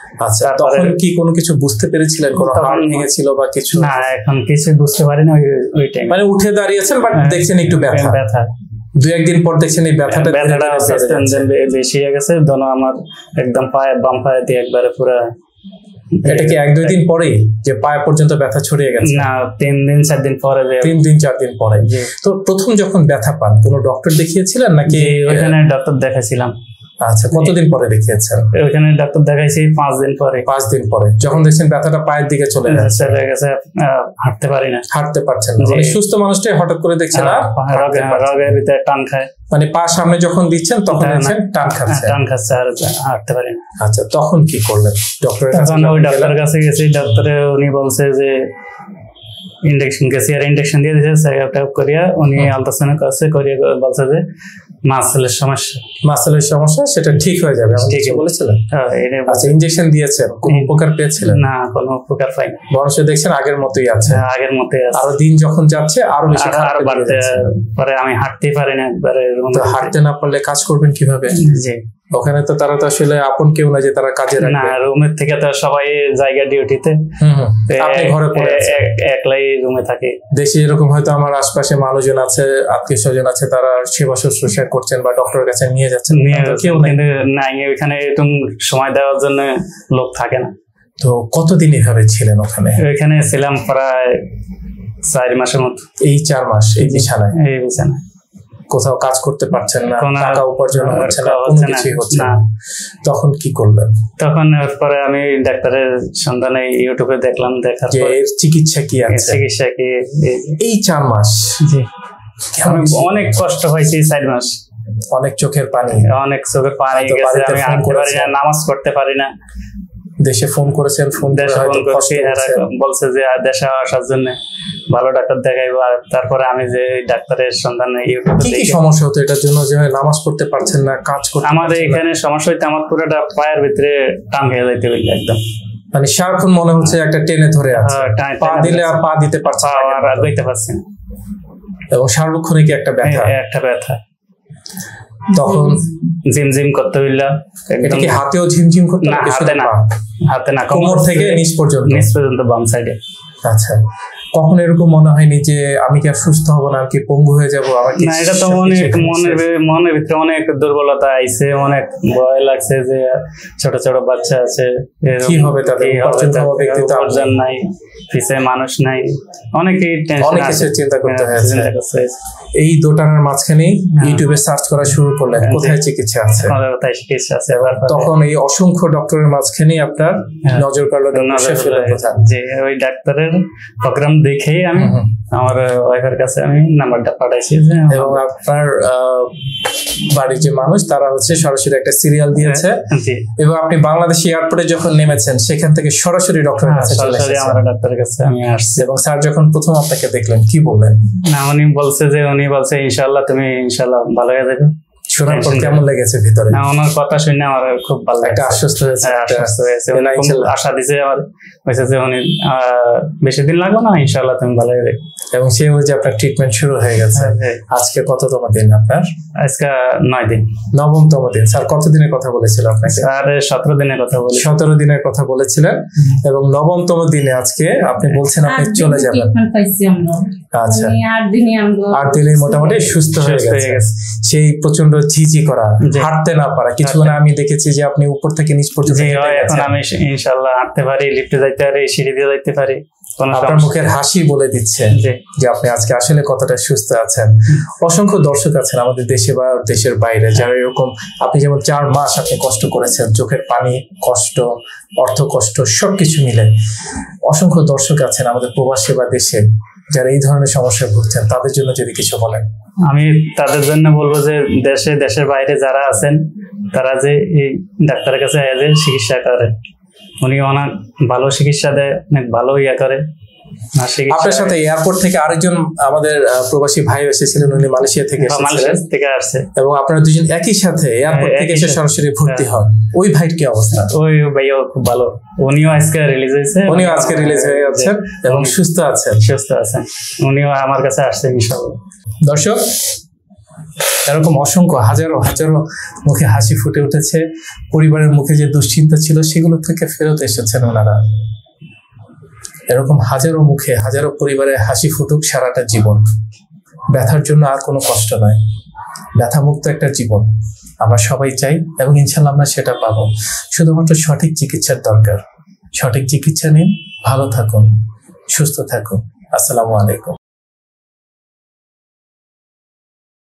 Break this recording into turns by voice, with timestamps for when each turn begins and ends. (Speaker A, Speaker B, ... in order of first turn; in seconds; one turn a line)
Speaker A: 0.2-4.0
Speaker B: 0.4-1.0
Speaker B: 2.3-3.1
Speaker B: 3.7-6.2
Speaker A: 6.1-8.2
Speaker B: 7.1-8.5
Speaker A: 9.0-11.5
Speaker B: 10.1-15.2
Speaker B: 16.1-17.0
Speaker A: 16.2-19.3
Speaker B: 19.0-21.0
Speaker A: 20.8-25.5
Speaker B: 21.8-22.1
Speaker B: 24.9-26.5
Speaker A: 27.0-28.5
Speaker B: 28.5-30.5
Speaker A: 30.4-33.2
Speaker B: 32.6-34.9
Speaker A: 34.9-38.5
Speaker B: 35.6-36.0
Speaker B: 37.1-39.3
Speaker A: 39.5-42.1
Speaker B: 40.9-43.6
Speaker A: 43.8-46.4
Speaker B: 45.5-48.5
Speaker B: 49.6-54.2
Speaker B: 54.9-55.8
Speaker A: 56.0-58.6
Speaker B: 57.7-59.6
Speaker A: 59.3-61.4
Speaker B: 60.5-62.6
Speaker A: 62.7-64.2
Speaker B: 64.0-65.1
Speaker A: 64.9-67.5
Speaker B: 66.3-69.9
Speaker A: 69.5-71.4
Speaker B: 71.3-71.8
Speaker A: 72.1-74.8
Speaker B: 74.4-77.0
Speaker A: 77.2-78.8
Speaker B: 77.7-80.2
Speaker A: 80.3-87.0
Speaker B: 86.1-90.5
Speaker A: 91.0-92.8
Speaker B: 92.8-94.3
Speaker B: 95.0-95.8
Speaker A: 96.0-97.3
Speaker B: 96.8-98.0
Speaker A: 98.7-102.4
Speaker B: 100.0-102.4
Speaker A: 103.0-103.9
Speaker B: 104.2-108.2
Speaker A: 107.9-109.4
Speaker B: 109.0-110.6
Speaker A: 110.6-111.6
Speaker B: 111.6-111.9
Speaker A: 112.5-113.3
Speaker B: 112.6-114.5
Speaker A: 115.1-116.1
Speaker B: 115.9-119.3
Speaker A: 116.9-118.3
Speaker A: 120.2-122.6
Speaker B: 121.2-124.4
Speaker B: 124.9-128.8
Speaker A: 128.4-132.0
Speaker B: 131.4-135.4
Speaker A: 135.9-140.3
Speaker B: 137.7-140.8
Speaker A: 141.9-143.3
Speaker B: 143.0-144.0
Speaker A: 145.3-146.1
Speaker B: 146.2-148.2
Speaker A: 147.8-149.9
Speaker B: 149.0-153.0
Speaker A: 150.7-152.1
Speaker A: 153.4-153.8
Speaker A: 154.3-159.4
Speaker B: 158.0-172.2
Speaker A: 165.2-167.3
Speaker A: 170.2-171.7
Speaker A: 172.6-176.5
Speaker B: 174.0-174.3
Speaker B: 175.3-175.8
Speaker B: 176.3-178.1
Speaker A: 177.5-182.2
Speaker B: 180.4-188.2
Speaker A: 184.7-185.1
Speaker A: 187.9-189.4
Speaker A: 190.0-192.8
Speaker B: 192.3-193.3
Speaker A: 193.4-197.6
Speaker B: 196.6-198.8
Speaker A: 198.8-201.0
Speaker B: 201.3-204.7
Speaker A: 205.1-206.6
Speaker B: 205.3-205.8
Speaker B: 206.5-215.0
Speaker A: 208.2-210.5
Speaker A: 215.3-219.1
Speaker B: 217.1-217.6
Speaker B: 219.4-220.5
Speaker A: 220.7-223.1
Speaker B: 222.8-224.5
Speaker A: 224.3-229.4
Speaker B: 228.1-228.3
Speaker C: 228.4-232.8
Speaker A: 230.5-231.0
Speaker A: 231.9-239.8
Speaker B: 232.9-233.9
Speaker B: 235.8-236.1
Speaker B: 236.8-237.2
Speaker B: 238.8-243.8
Speaker A: 243.3-256.5
Speaker B: 244.9-245.2
Speaker A: 257.3-262.4
Speaker B: 262.9-266.2
Speaker B: 266.7-269.5
Speaker B: 270.2-273.0
Speaker B: 273.7-274.6
Speaker A: 274.1-278.8
Speaker B: 278.2-279.5
Speaker A: 279.5-283.9
Speaker B: 281.1-282.5
Speaker B: 283.9-288.5
Speaker A: 286.7-289.2
Speaker B: 289.2-291.8
Speaker A: 292.2-292.6
Speaker A: 294.0-300.9
Speaker A: 302.7-306.0
Speaker A: 306.9-308.4
Speaker A: 309.2-310.3
Speaker A: 310.8-315.2
Speaker A: 315.7-317.7
Speaker A: 318.3-320.2